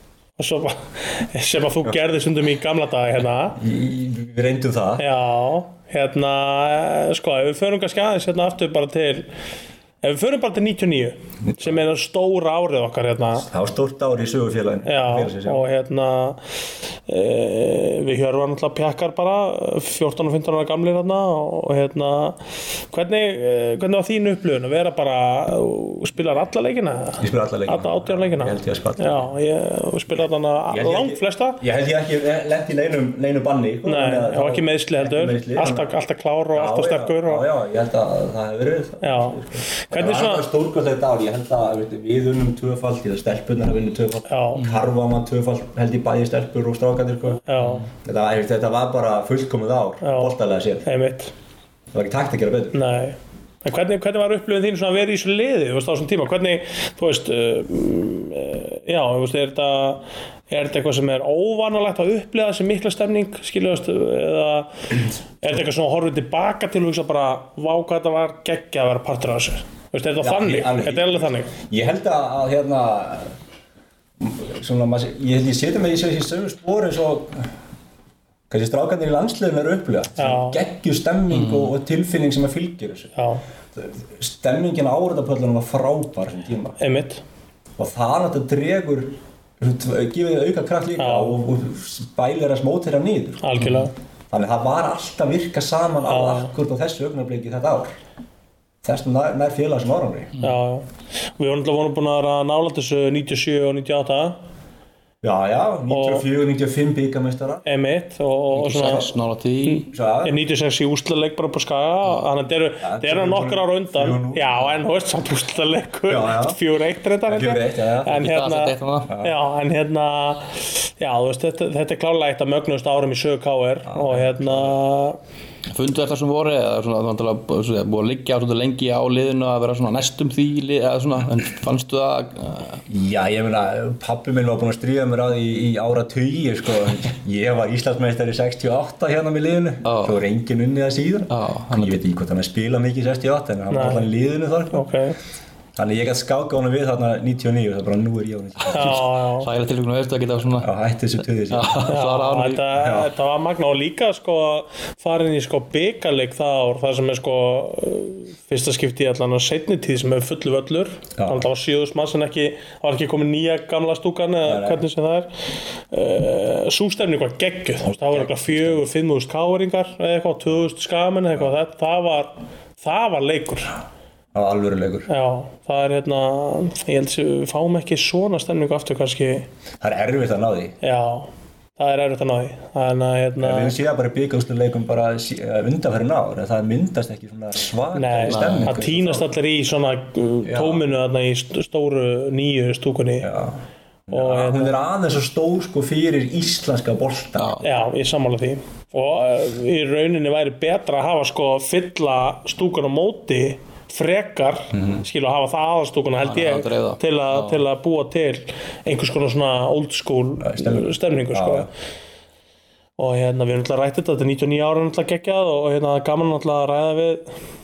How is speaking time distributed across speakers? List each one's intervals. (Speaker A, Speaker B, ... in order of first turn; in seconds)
Speaker A: 0.4-3.6, 5.0-9.3, 10.0-13.5, 14.9-16.4, 17.1-22.4, 22.9-31.6, 33.9-37.4, 39.0-40.5, 44.3-44.7, 47.4-47.9, 50.0-51.3, 52.7-71.5, 80.2-80.6, 83.2-83.4, 86.8-87.2, 91.0-91.4, 93.4-93.9, 96.1-96.5, 100.4-104.4, 105.9-106.2, 107.7-109.1, 109.7-125.2, 143.7-144.1, 144.7-145.2, 148.7-149.5, 151.9-165.3, 165.9-173.8, 175.1-179.5, 180.8-183.7, 187.9-193.3, 194.1-194.8, 197.6-211.7, 213.0-217.3
Speaker B: 3.6-5.0, 11.5-11.8, 13.4-15.6, 27.2-29.3, 30.7-35.9, 36.5-50.9, 51.9-52.8, 70.2-73.3, 74.2-77.5, 78.5-83.1, 83.8-86.8, 87.8-93.5, 94.3-97.9, 98.8-100.3, 105.2-107.6, 109.9-110.4, 112.8-114.8, 116.1-116.6, 117.3-118.2, 123.9-124.8, 132.9-144.9, 145.8-149.0, 150.6-151.9, 152.8-153.1, 161.2-161.4, 164.4-164.8, 167.8-168.8, 174.3-175.1, 179.8-180.8, 183.4-189.3, 190.4-190.9, 193.2-197.5, 204.7-205.0, 210.4-211.7
Speaker C: 47.6-47.9, 81.3-81.7, 93.6-93.9, 108.5-109.9, 118.1-119.1, 125.7-132.8, 139.8-140.2, 141.3-142.0, 148.6-150.7, 151.5-152.7, 188.2-188.8, 197.4-197.7, 206.2-207.6